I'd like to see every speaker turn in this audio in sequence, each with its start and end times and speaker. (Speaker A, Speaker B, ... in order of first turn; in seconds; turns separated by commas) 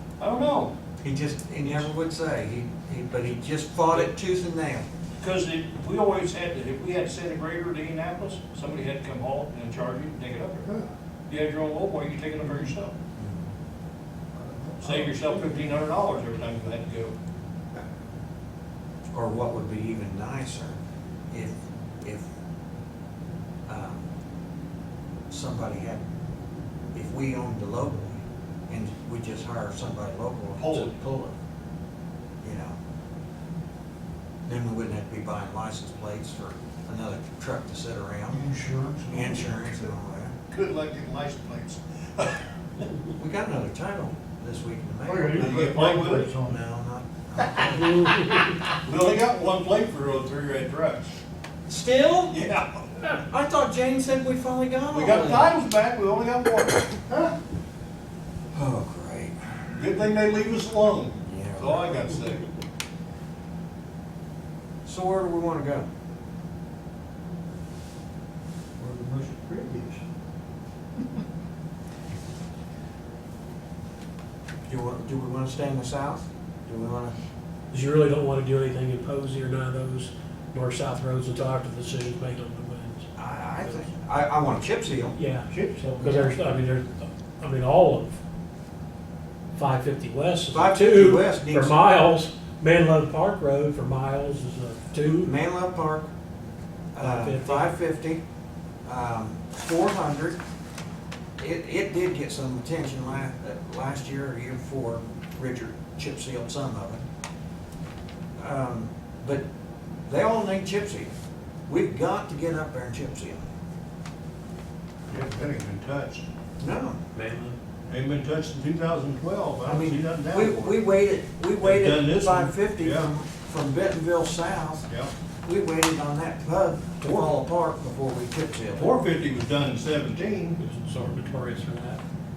Speaker A: 0.2-0.7, Speaker B: 1.0-4.8, Speaker A: 5.2-10.7, Speaker A: 11.3-12.9, Speaker C: 12.4-12.7, Speaker B: 13.2-13.4, Speaker C: 14.3-15.5, Speaker A: 14.8-17.1, Speaker B: 19.1-20.8, Speaker B: 21.3-22.3, Speaker B: 23.7-24.0, Speaker B: 25.3-26.0, Speaker B: 26.9-31.4, Speaker A: 30.6-30.9, Speaker B: 32.4-32.8, Speaker B: 34.5-38.5, Speaker C: 38.3-39.8, Speaker B: 39.1-40.3, Speaker A: 40.5-42.9, Speaker B: 43.1-45.5, Speaker C: 45.0-46.6, Speaker A: 45.3-46.3, Speaker B: 46.4-48.1, Speaker D: 47.7-48.5, Speaker A: 48.1-51.1, Speaker B: 51.7-52.5, Speaker A: 52.3-53.0, Speaker B: 53.0-55.5, Speaker A: 54.9-57.0, Speaker B: 58.5-59.4, Speaker A: 59.7-62.5, Speaker B: 61.2-62.0, Speaker B: 64.8-65.9, Speaker C: 68.8-70.0, Speaker B: 74.7-77.1, Speaker D: 77.7-83.1, Speaker B: 83.2-85.2, Speaker D: 85.1-88.2, Speaker C: 85.5-86.1, Speaker D: 89.5-95.3, Speaker B: 90.5-91.7, Speaker B: 95.0-96.1, Speaker B: 96.9-98.2, Speaker D: 97.0-97.7, Speaker B: 98.8-100.4, Speaker B: 101.4-107.0, Speaker B: 108.4-109.4, Speaker B: 110.1-111.1, Speaker B: 111.7-113.5, Speaker A: 115.1-116.2, Speaker B: 116.6-117.0, Speaker D: 117.1-117.5, Speaker A: 117.9-120.8, Speaker B: 119.6-124.9, Speaker A: 121.6-123.1, Speaker B: 125.4-128.9, Speaker A: 127.0-127.3, Speaker A: 128.7-130.6, Speaker D: 130.6-132.0